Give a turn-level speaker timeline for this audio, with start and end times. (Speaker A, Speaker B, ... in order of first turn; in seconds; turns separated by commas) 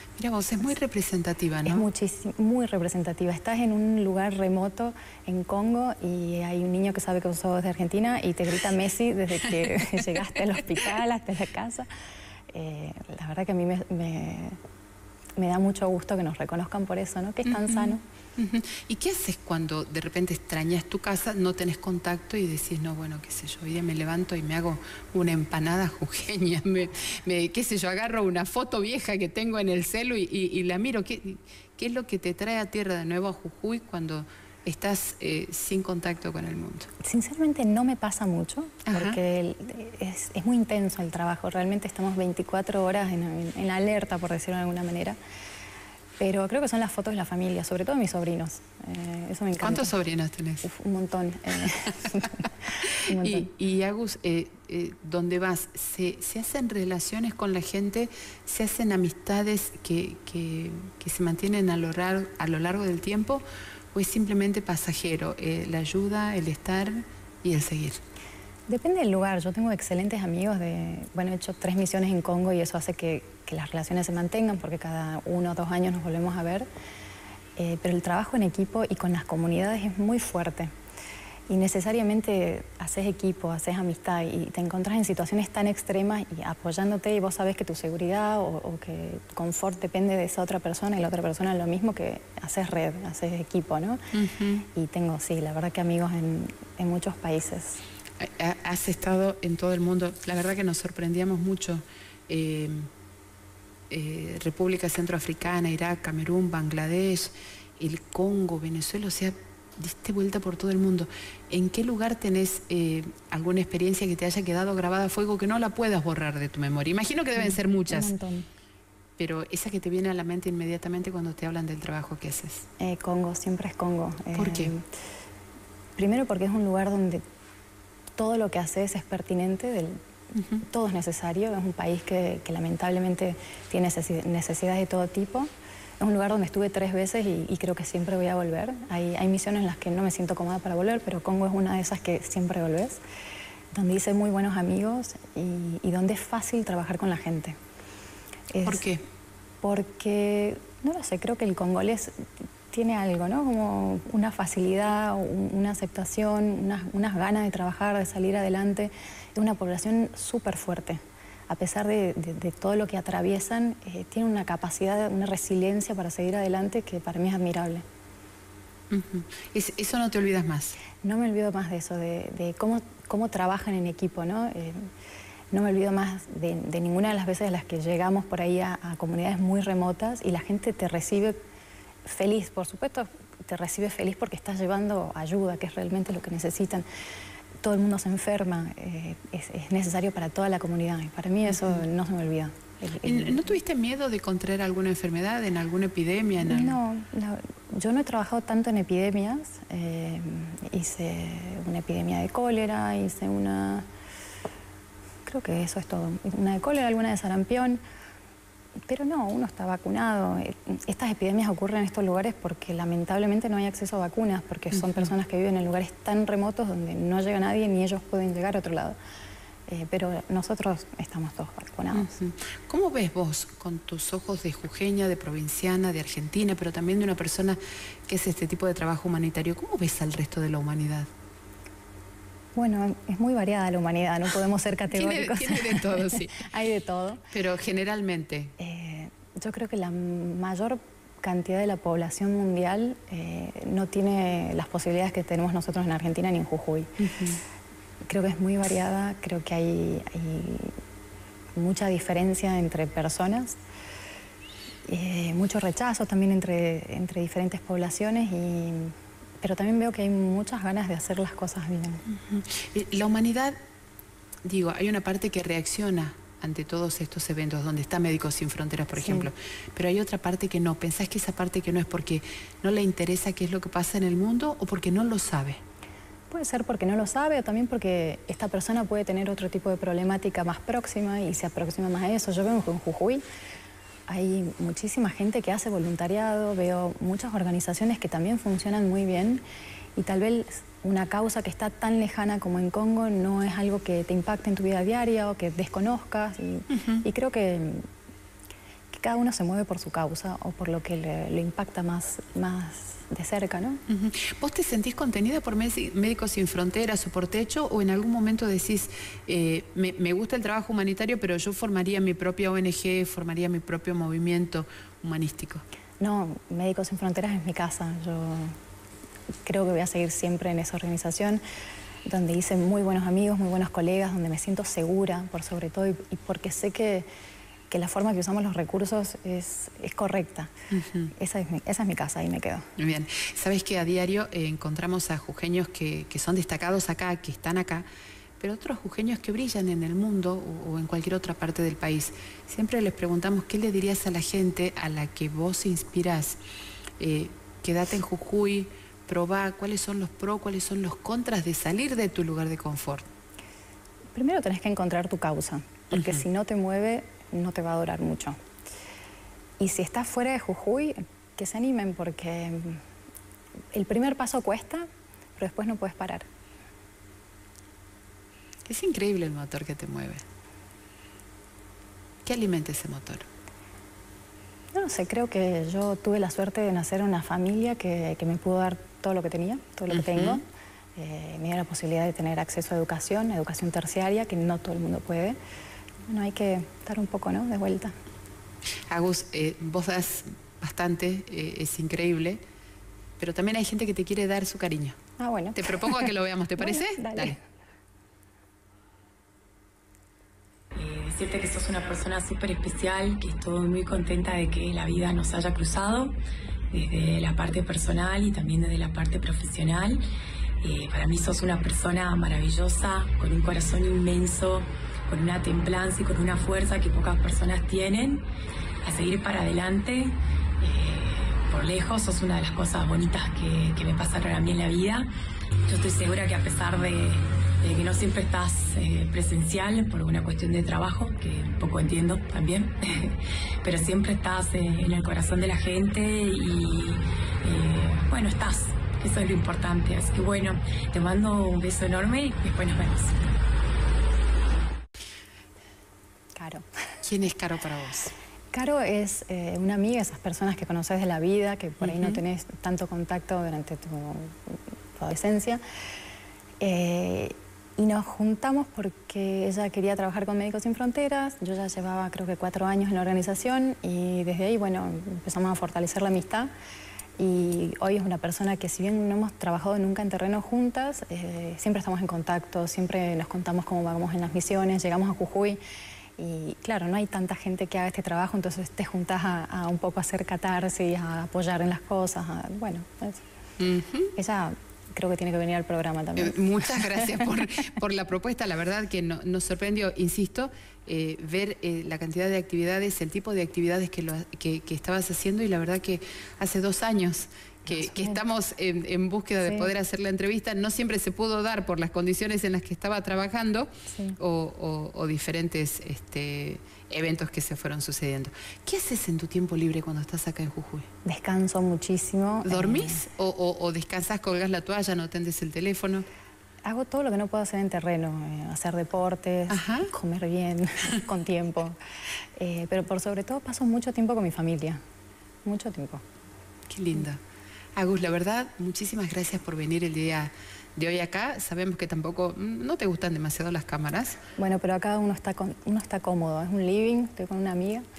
Speaker A: 0.2-1.9, Speaker B: 1.6-11.9, Speaker A: 9.8-10.0, Speaker B: 12.5-14.6, Speaker B: 15.4-18.0, Speaker A: 17.5-36.9, Speaker B: 37.0-45.2, Speaker A: 38.9-39.2, Speaker B: 46.2-49.9, Speaker A: 49.6-50.7, Speaker B: 50.6-53.5, Speaker A: 53.1-68.0, Speaker B: 68.7-76.7, Speaker B: 77.6-80.7, Speaker B: 81.5-94.0, Speaker A: 94.1-94.7, Speaker B: 94.7-97.8, Speaker A: 98.2-102.9, Speaker A: 103.9-118.1, Speaker B: 117.4-118.5, Speaker A: 119.2-122.7, Speaker B: 122.8-124.9, Speaker A: 124.3-124.7, Speaker B: 126.0-127.2, Speaker B: 128.2-130.0, Speaker B: 130.6-135.5, Speaker B: 136.0-143.0, Speaker B: 143.7-147.6, Speaker B: 148.5-148.8, Speaker A: 148.6-149.0, Speaker B: 149.6-167.8, Speaker A: 168.9-170.8, Speaker B: 171.0-174.9, Speaker B: 175.5-181.4, Speaker B: 182.1-186.8, Speaker B: 187.6-193.5, Speaker A: 193.0-196.8, Speaker B: 196.4-203.9, Speaker B: 205.2-207.8, Speaker B: 208.9-219.0, Speaker B: 219.7-222.2, Speaker A: 221.9-231.1, Speaker B: 232.6-237.3, Speaker A: 234.9-236.4, Speaker A: 237.3-238.6, Speaker B: 238.6-247.1, Speaker A: 247.0-247.4, Speaker B: 248.1-250.8, Speaker B: 251.6-253.6, Speaker B: 254.9-262.1, Speaker A: 262.1-263.6, Speaker A: 264.4-275.6, Speaker B: 268.9-269.3, Speaker B: 276.3-283.2, Speaker B: 284.1-289.4, Speaker B: 290.0-297.9, Speaker A: 296.7-297.0, Speaker B: 298.9-303.8, Speaker A: 303.9-315.6, Speaker B: 316.0-318.6, Speaker B: 319.4-321.4, Speaker B: 322.1-327.1, Speaker B: 327.7-330.5, Speaker A: 330.7-331.1, Speaker B: 331.1-332.7, Speaker A: 332.8-337.9, Speaker A: 338.4-346.4, Speaker A: 347.0-353.1, Speaker B: 354.1-358.4, Speaker A: 355.9-356.2, Speaker B: 359.6-362.8, Speaker B: 363.7-366.3, Speaker A: 368.7-370.2, Speaker A: 372.2-373.3, Speaker B: 374.7-380.4, Speaker A: 379.9-380.4, Speaker B: 381.0-385.4, Speaker B: 386.1-388.0, Speaker A: 388.9-392.4, Speaker A: 393.2-395.0, Speaker B: 395.2-397.4, Speaker A: 395.6-397.4, Speaker C: 400.8-406.1, Speaker C: 406.7-410.0, Speaker C: 410.6-418.2, Speaker C: 418.8-425.1, Speaker C: 425.6-443.3, Speaker B: 446.4-446.7, Speaker A: 447.0-448.1, Speaker B: 448.5-455.6, Speaker A: 451.8-452.2, Speaker B: 456.6-466.5, Speaker B: 467.2-475.6, Speaker B: 476.2-483.3, Speaker A: 483.6-484.1, Speaker B: 484.2-487.2, Speaker A: 486.2-510.9, Speaker B: 497.7-498.2, Speaker B: 499.4-499.7, Speaker B: 503.9-504.2, Speaker B: 511.1-513.1, Speaker A: 512.5-516.1, Speaker B: 516.6-521.8, Speaker A: 519.5-519.9, Speaker B: 522.4-524.8, Speaker B: 525.5-526.0, Speaker A: 526.7-527.2, Speaker A: 527.8-534.2, Speaker B: 534.4-537.9